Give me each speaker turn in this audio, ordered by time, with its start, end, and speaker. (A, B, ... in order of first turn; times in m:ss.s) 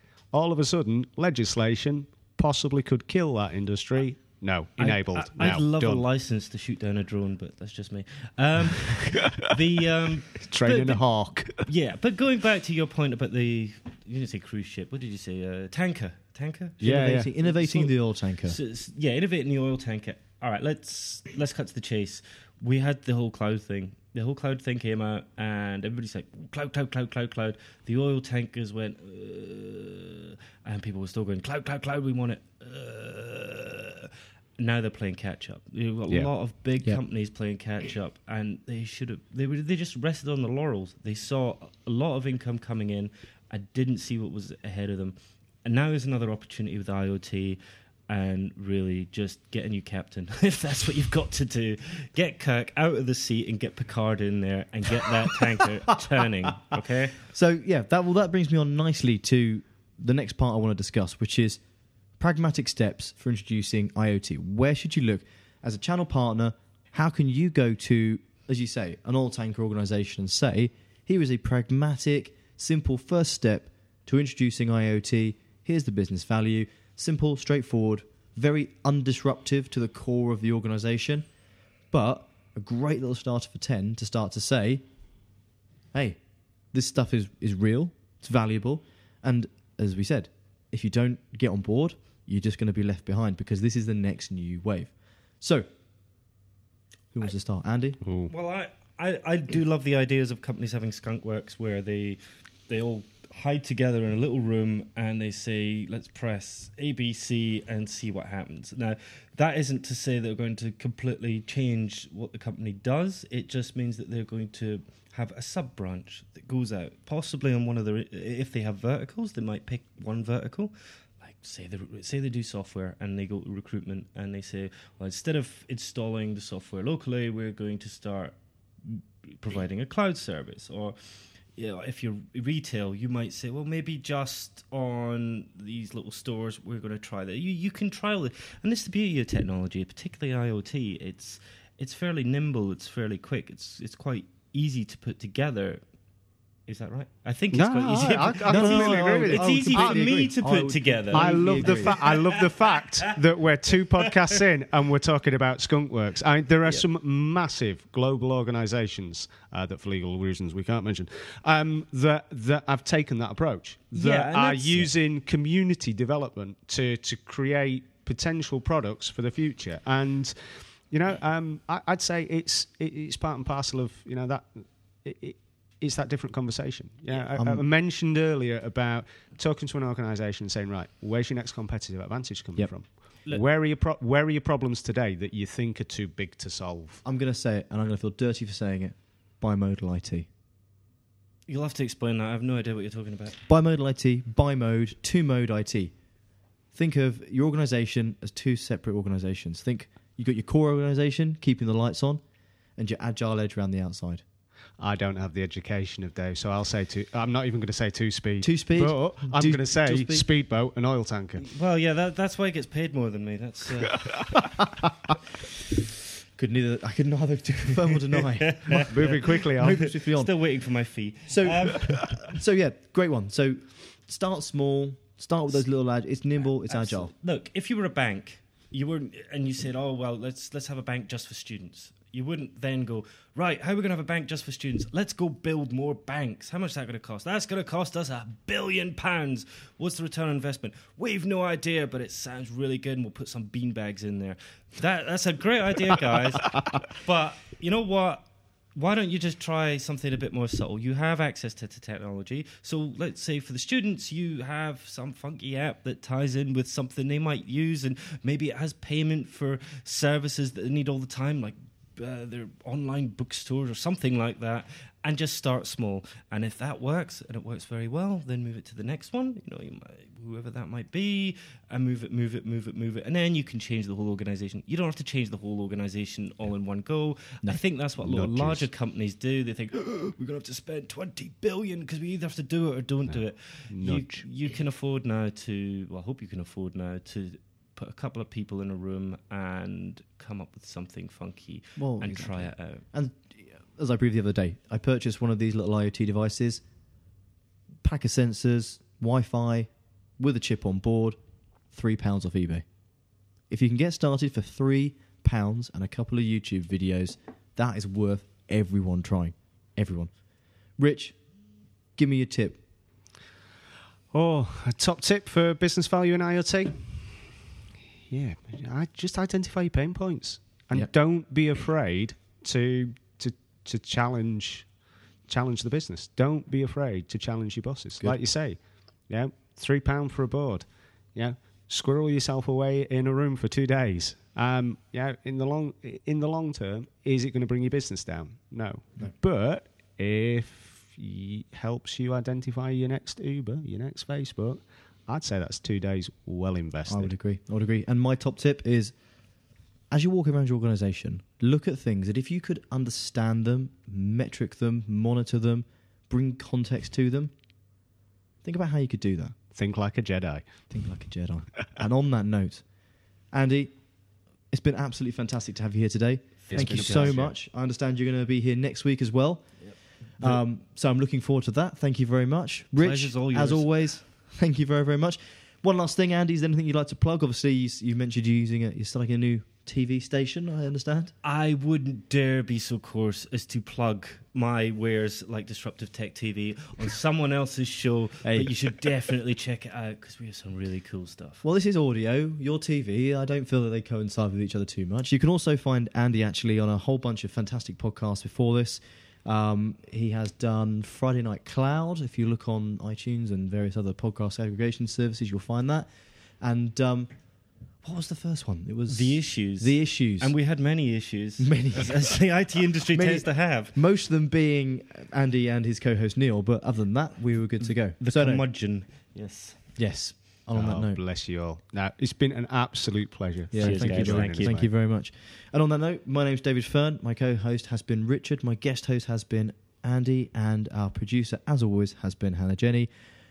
0:00.3-0:06.0 A
0:04.8-0:16.8 B
0:10.4-0:11.6 A
0:16.8-0:17.3 A
0:16.8-0:18.6 C
0:17.4-0:17.9 B
0:18.4-0:57.2 B
0:57.3-1:01.6 C
1:02.2-1:21.3 C
1:21.9-1:24.8 C
1:25.9-1:26.2 C
1:26.7-1:35.7 C
1:37.1-1:38.0 C
1:38.0-1:38.3 A
1:38.3-2:25.8 B
2:26.7-2:33.1 B
2:27.5-2:30.3 A
2:28.5-2:32.0 C
2:31.1-3:07.0 A
2:34.0-2:34.4 B
2:43.9-2:44.9 B
2:57.4-2:57.6 C
3:07.0-3:10.3 C
3:11.5-3:13.4 B
3:13.5-3:16.0 C
3:16.7-3:22.2 C
3:22.8-3:24.2 C
3:24.8-3:31.5 A
3:28.4-3:30.3 C
3:31.4-3:34.3 B
3:36.4-3:40.5 C
3:38.5-3:42.1 B
3:38.9-3:39.9 A
3:41.3-3:47.1 C
3:46.6-4:52.8 B
4:37.8-4:38.7 A
4:43.1-4:44.3 A
4:51.8-4:56.6 C
4:57.8-5:01.2 C
5:01.7-5:02.7 C
5:03.5-5:10.2 C
5:10.7-5:11.2 C
5:12.0-5:12.6 C
5:14.1-5:17.4 A
5:18.1-5:24.8 A
5:25.3-5:47.1 A
5:46.9-5:49.0 C
5:49.9-5:57.3 C
5:58.4-5:59.4 C
5:59.5-6:00.7 A
6:00.7-6:02.7 C
6:03.3-6:03.8 C
6:04.5-6:21.1 C
6:06.4-6:07.2 B
6:06.5-6:07.3 A
6:09.6-6:10.4 B
6:12.8-6:13.8 B
6:21.2-6:31.4 B
6:28.2-6:28.5 C
6:31.4-6:47.2 C
6:47.8-6:50.4 C
6:48.9-6:53.8 B
6:51.4-6:52.2 C
6:52.9-6:58.4 C
6:57.6-6:59.6 B
6:59.8-7:01.0 C
7:00.5-7:04.7 A
7:03.5-7:12.9 C
7:03.6-7:04.6 B